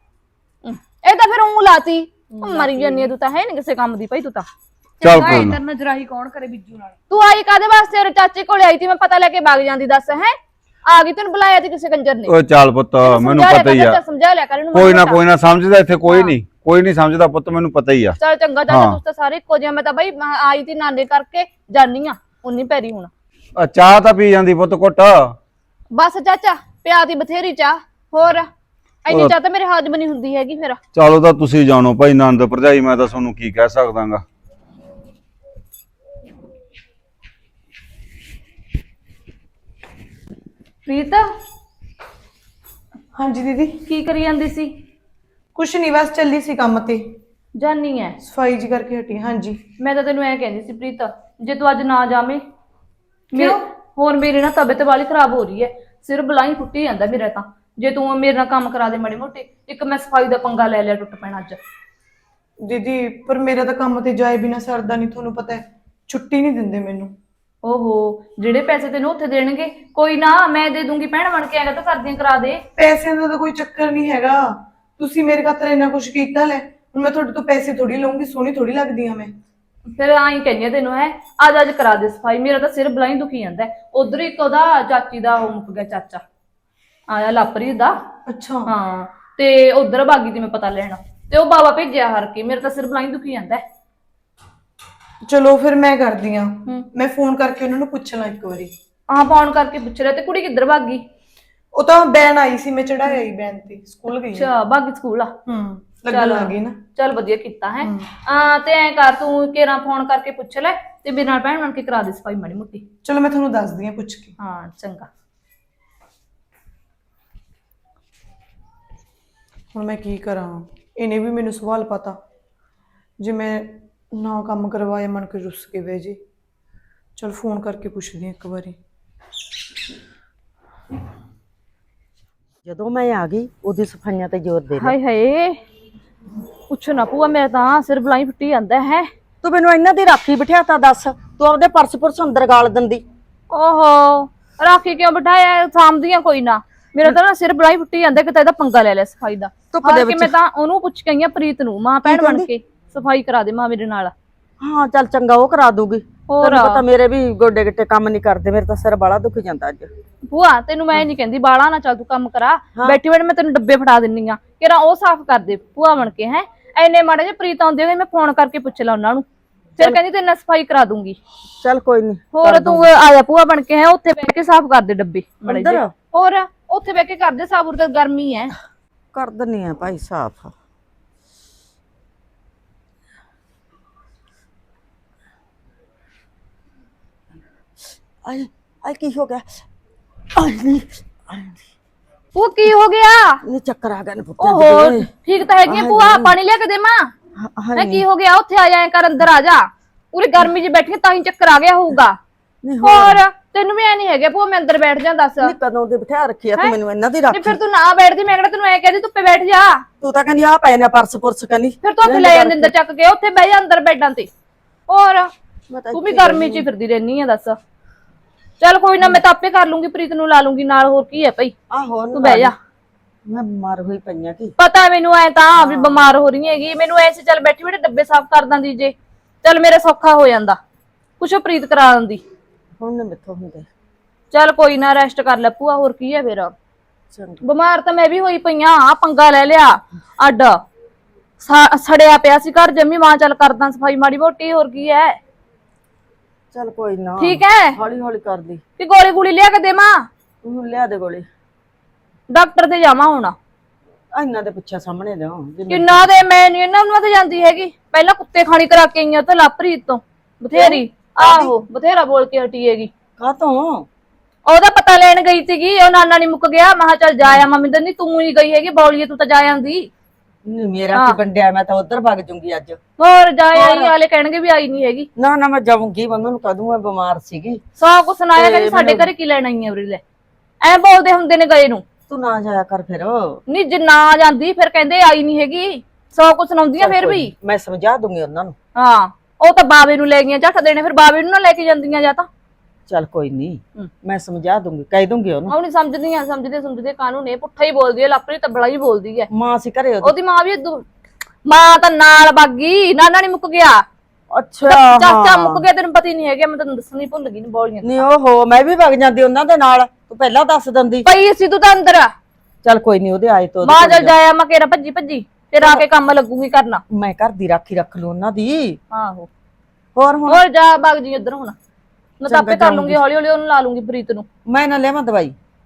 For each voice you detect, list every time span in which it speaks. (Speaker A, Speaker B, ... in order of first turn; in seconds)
Speaker A: 0.7-4.5, 7.1-10.3, 10.9-12.3, 13.0-15.2, 16.1-16.3, 18.2-23.1, 25.9-28.5, 29.1-30.8, 40.9-41.3, 43.9-44.7, 47.6-48.2, 49.8-52.4, 53.3-61.6, 67.6-72.6, 79.9-86.2, 87.1-88.0, 88.7-93.6, 99.1-101.0, 104.3-105.3, 106.1-112.8, 114.4-115.1, 134.8-135.6, 136.7-139.1, 143.5-154.1, 156.3-156.8, 160.3-169.2, 169.8-171.2, 172.3-178.5, 192.3-193.4, 194.4-197.1, 197.8-202.2, 202.8-205.5, 207.3-209.8, 211.8-214.3, 214.9-215.3, 215.9-217.6, 218.6-221.5, 222.1-222.6, 224.6-230.6, 231.2-232.2, 234.3-236.5, 237.4-240.6, 241.4-245.2, 247.2-247.8, 248.8-250.1, 252.3-253.3, 255.7-262.9, 264.5-269.9, 273.0-275.1, 277.8-280.0, 280.6-281.8, 283.5-287.3, 288.8-292.3, 295.5-299.3, 300.0-300.9, 301.4-303.8, 304.7-308.1, 311.1-312.1, 313.6-316.8, 318.9-319.3, 320.3-321.6, 322.2-324.2
Speaker B: 2.3-3.1, 5.0-7.0
Speaker C: 5.0-5.6, 12.3-14.0, 14.7-18.2, 18.7-19.0, 23.6-25.4, 29.1-29.3, 30.9-34.2
Speaker D: 43.2-43.8, 45.6-47.1, 48.2-49.6, 53.3-53.6, 62.6-67.2, 72.8-79.3, 88.3-88.7, 95.3-98.7, 101.7-104.5, 105.5-106.8, 113.0-114.3, 119.7-122.2, 123.2-126.2, 127.2-128.8
Speaker E: 132.7-134.9, 139.4-143.0, 149.7-150.3, 152.1-152.5, 154.6-159.9, 171.6-172.9, 175.4-175.9, 179.1-180.5, 188.2-189.6, 190.3-191.6, 193.4-195.1, 195.7-196.3, 197.4-198.1, 202.6-203.2, 205.4-207.6, 210.0-212.7, 215.7-216.7, 221.7-222.5, 223.3-224.5, 225.6-226.1, 232.8-233.7, 237.1-237.4, 246.5-248.6, 250.4-251.2, 254.1-256.1, 260.5-261.5, 263.2-263.9, 270.5-272.8, 273.5-273.9, 275.2-277.6, 278.4-279.1, 282.1-283.4, 286.8-288.6, 292.9-295.5, 299.3-300.1, 304.3-305.6, 307.8-311.1, 312.6-314.1, 315.6-315.9, 316.9-318.8, 319.9-320.4, 322.3-323.0, 324.5-325.4